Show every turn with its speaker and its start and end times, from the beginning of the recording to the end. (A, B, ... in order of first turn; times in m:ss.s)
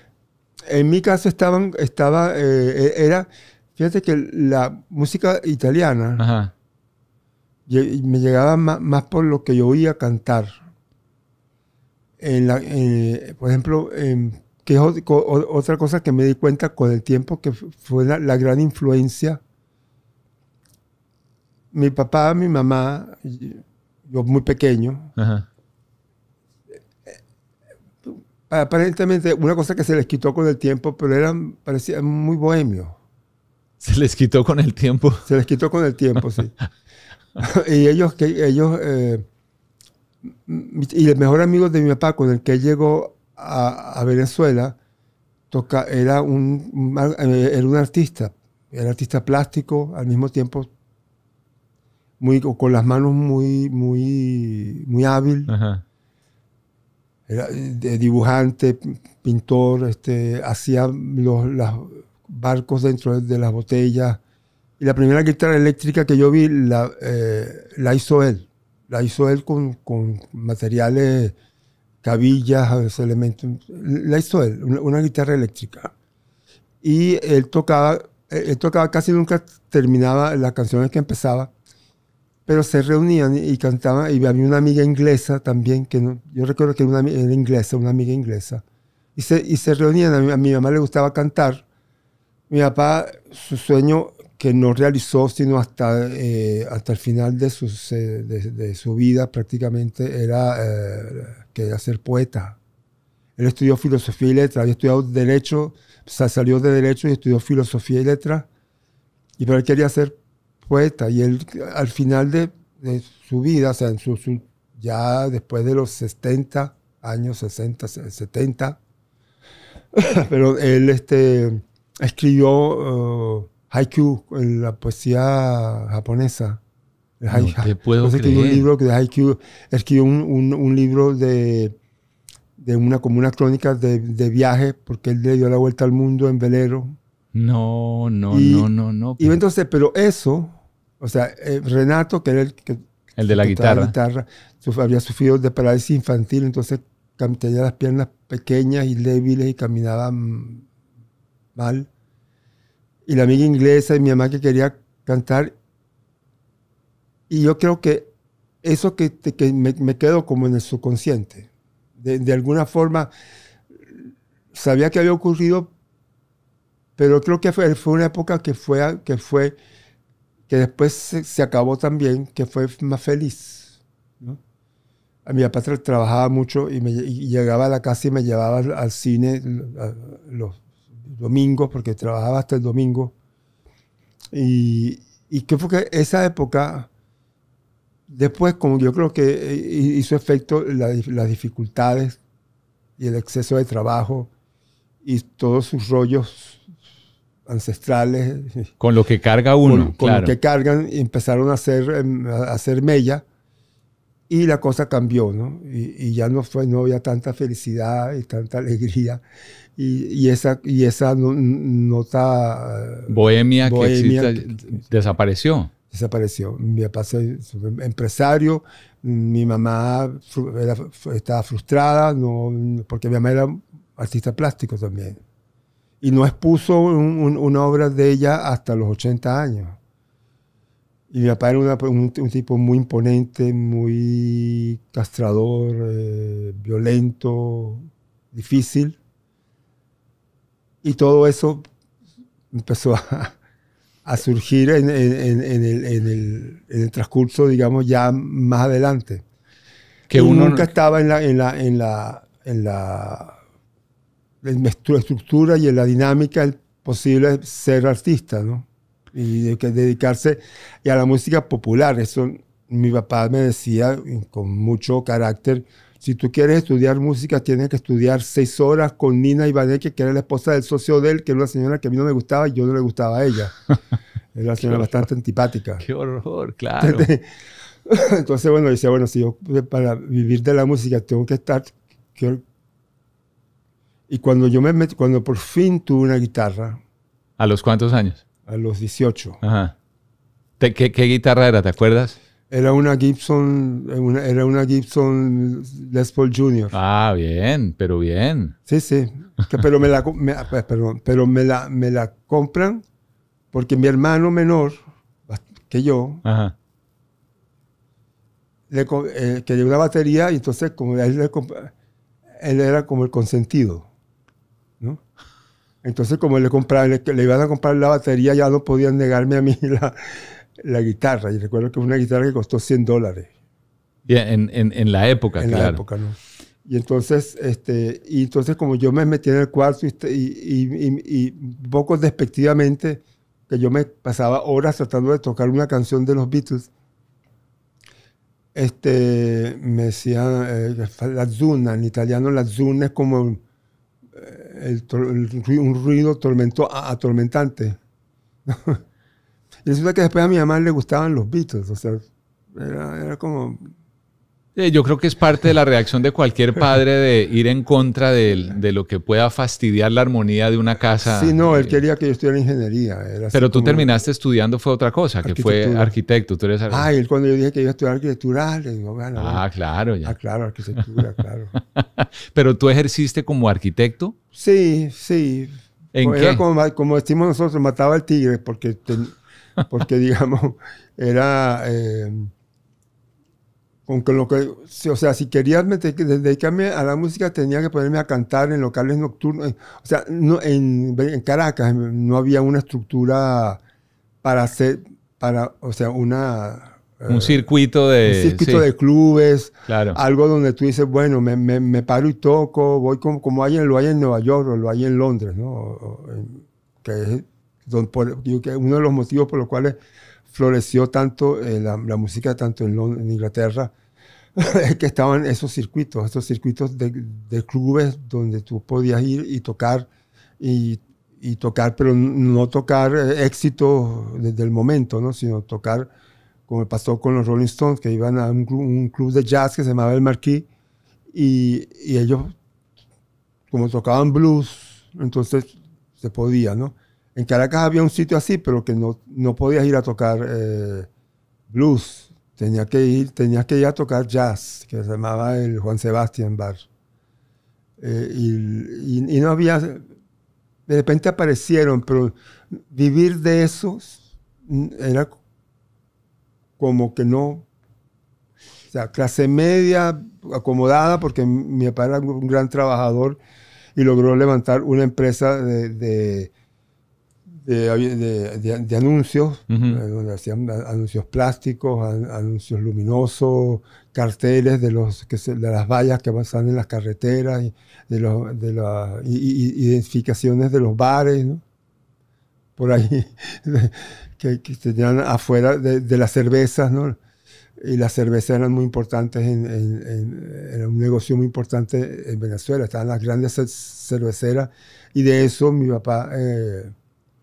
0:00.7-0:06.2 A
0:06.2-0:06.5 B
0:07.7-0:10.6 A
0:12.2-0:19.4 A
0:21.7-0:25.1 A
0:25.2-0:25.4 B
0:28.0-0:33.0 A
0:33.8-0:35.2 B
0:35.2-0:36.5 A
0:37.4-0:39.2 A
0:40.4-0:44.8 A
0:45.5-0:50.7 A
0:52.2-0:55.5 A
0:55.5-0:55.8 B
0:57.3-1:04.2 A
1:04.8-1:11.3 A
1:12.0-1:15.9 A
1:16.8-1:21.5 A
1:22.4-1:28.6 A
1:29.2-1:31.6 A
1:32.5-1:42.6 A
1:43.4-1:48.5 A
1:49.4-1:58.8 A
1:59.9-2:06.6 A
2:07.2-2:11.7 A
2:07.3-2:08.7 B
2:12.6-2:17.0 A
2:17.3-2:19.4 B
2:18.3-2:30.6 A
2:23.2-2:23.9 B
2:31.5-2:31.9 A
2:33.0-2:35.6 A
2:37.3-2:38.1 A
2:38.6-2:43.1 A
2:43.8-2:45.7 A
2:47.0-2:49.6 A
2:50.5-2:54.4 A
2:55.2-3:03.1 A
3:04.3-3:06.9 A
3:08.1-3:12.2 A
3:13.0-3:14.3 A
3:15.0-3:16.7 A
3:17.4-3:18.7 A
3:18.8-3:20.3 B
3:19.6-3:23.2 A
3:24.3-3:29.2 A
3:29.8-3:34.8 A
3:33.1-3:35.7 B
3:35.9-3:45.2 A
3:46.0-3:49.8 A
3:51.1-3:59.0 A
4:00.8-4:01.6 A
4:02.5-4:03.3 A
4:04.0-4:09.2 A
4:10.1-4:10.7 B
4:10.1-4:13.4 A
4:14.4-4:33.6 A
4:34.3-4:35.8 A
4:34.6-4:34.9 B
4:35.8-4:37.1 B
4:36.8-4:37.2 A
4:37.8-4:42.4 A
4:44.1-4:46.8 A
4:47.4-4:48.2 B
4:48.5-4:49.4 A
4:49.4-4:49.7 B
4:50.6-4:52.2 B
4:52.5-4:56.8 A
4:56.7-4:58.6 B
4:58.7-5:02.8 A
5:03.5-5:06.2 A
5:06.2-5:06.5 B
5:08.7-5:11.7 A
5:12.4-5:13.9 A
5:15.8-5:23.3 A
5:24.1-5:25.8 B
5:25.4-5:36.7 A
5:38.5-5:43.4 A
5:44.1-5:47.8 A
5:48.4-5:48.8 A
5:49.6-5:53.7 A
5:54.6-6:01.8 B
6:01.0-6:03.9 A
6:03.3-6:06.9 B
6:05.2-6:05.9 A
6:06.7-6:09.4 A
6:09.2-6:10.1 B
6:10.0-6:11.5 A
6:11.7-6:14.1 B
6:14.3-6:19.2 A
6:15.9-6:16.4 B
6:19.7-6:22.3 A
6:23.8-6:33.6 A
6:34.2-6:37.5 A
6:37.1-6:38.6 B
6:38.0-6:49.8 A
6:39.7-6:40.0 B
6:50.3-6:53.7 A
6:54.4-6:59.9 A
7:00.4-7:05.9 A
7:06.5-7:10.5 A
7:11.1-7:12.3 A
7:13.5-7:20.9 A
7:21.5-7:26.6 A
7:27.8-7:29.8 A
7:30.7-7:35.1 A
7:36.6-7:37.4 A
7:38.7-7:43.2 A
7:43.8-7:46.3 A
7:47.3-8:01.4 A
7:49.5-7:49.8 B
8:02.6-8:07.0 A
8:07.6-8:16.7 A